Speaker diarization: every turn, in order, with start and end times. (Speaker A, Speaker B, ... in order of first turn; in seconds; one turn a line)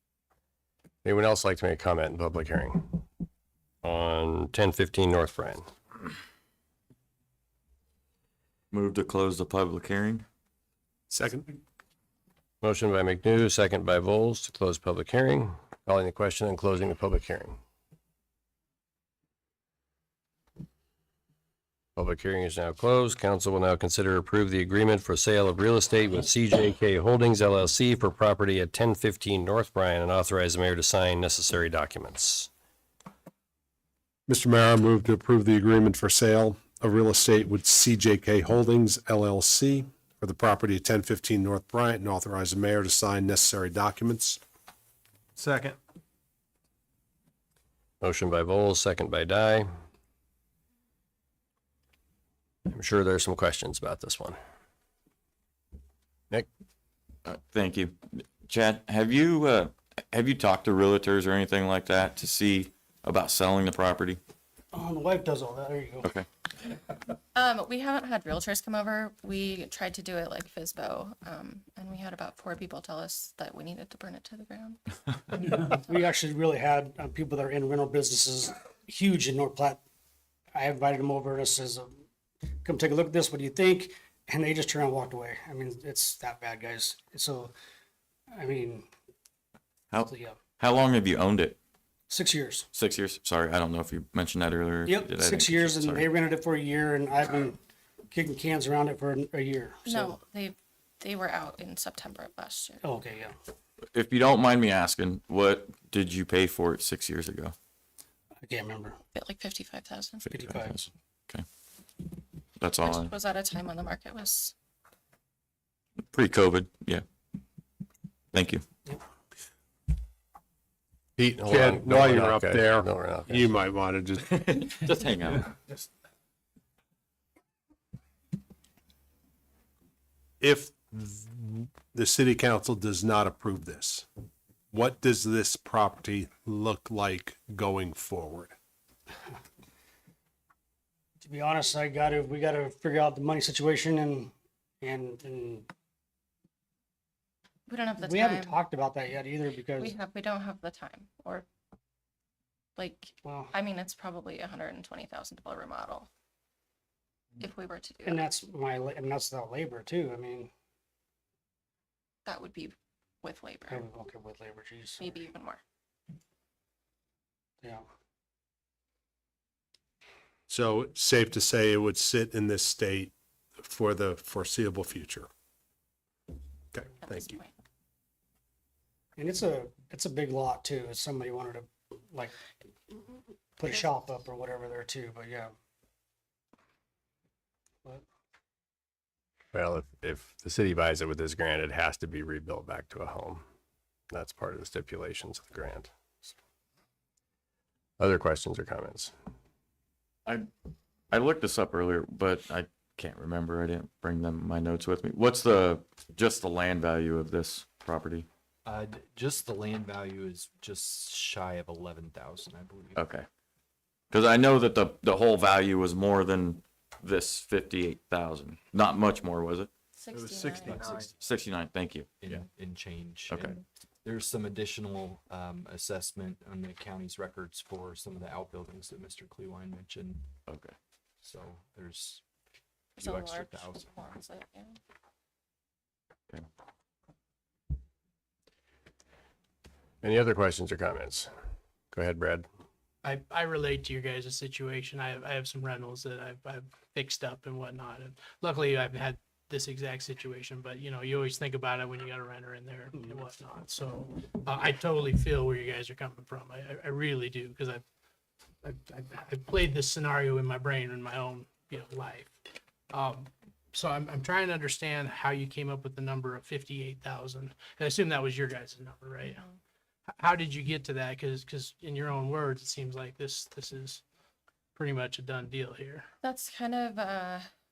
Speaker A: 1.0-3.0
Speaker A: 3.8-5.7
Speaker B: 8.7-10.2
Speaker C: 11.1-11.5
Speaker A: 12.6-17.6
Speaker A: 21.9-32.5
Speaker C: 34.3-44.4
Speaker A: 48.0-49.7
Speaker A: 52.7-54.4
Speaker B: 57.2-64.2
Speaker D: 64.7-66.1
Speaker E: 67.3-74.8
Speaker D: 75.4-79.8
Speaker D: 80.5-81.9
Speaker D: 82.6-87.5
Speaker D: 88.3-88.9
Speaker B: 89.9-91.6
Speaker D: 90.1-90.4
Speaker D: 92.1-92.7
Speaker B: 92.7-96.1
Speaker D: 94.8-97.6
Speaker D: 98.1-100.2
Speaker E: 99.8-102.8
Speaker D: 102.8-103.3
Speaker B: 103.9-107.5
Speaker D: 108.4-109.0
Speaker E: 109.1-110.3
Speaker B: 110.2-111.4
Speaker D: 110.3-110.8
Speaker B: 112.6-113.1
Speaker E: 112.8-114.5
Speaker B: 116.1-117.0
Speaker B: 118.3-118.6
Speaker A: 121.2-123.5
Speaker C: 121.5-124.3
Speaker B: 124.3-125.5
Speaker C: 130.4-134.1
Speaker C: 134.7-138.5
Speaker D: 141.2-145.7
Speaker E: 147.7-148.6
Speaker D: 148.0-149.9
Speaker E: 149.7-151.4
Speaker E: 152.8-156.1
Speaker D: 153.2-153.5
Speaker E: 157.4-158.2
Speaker D: 158.0-160.5
Speaker E: 162.2-163.8
Speaker D: 163.7-165.2
Speaker E: 165.0-165.6
Speaker C: 170.5-175.3
Speaker C: 176.7-177.4
Speaker E: 177.0-177.5
Speaker D: 179.2-182.3
Speaker D: 183.6-185.5
Speaker A: 189.5-193.4
Speaker A: 194.1-195.9
Speaker A: 198.0-199.1
Speaker B: 201.1-208.3
Speaker F: 208.6-213.0
Speaker B: 212.9-213.2
Speaker B: 214.1-219.7
Speaker E: 219.9-221.1
Speaker F: 220.1-221.3
Speaker B: 221.2-222.4
Speaker F: 222.2-230.3
Speaker B: 223.3-223.5
Speaker B: 230.5-230.7
Speaker F: 231.2-232.2
Speaker F: 233.0-233.9
Speaker E: 233.0-234.8
Speaker A: 240.0-241.3
Speaker A: 241.9-242.5
Speaker G: 243.0-257.8
Speaker G: 258.6-262.4
Speaker G: 262.9-269.4
Speaker E: 269.2-269.6
Speaker G: 270.2-274.0
Speaker G: 274.8-276.1
Speaker E: 276.2-277.4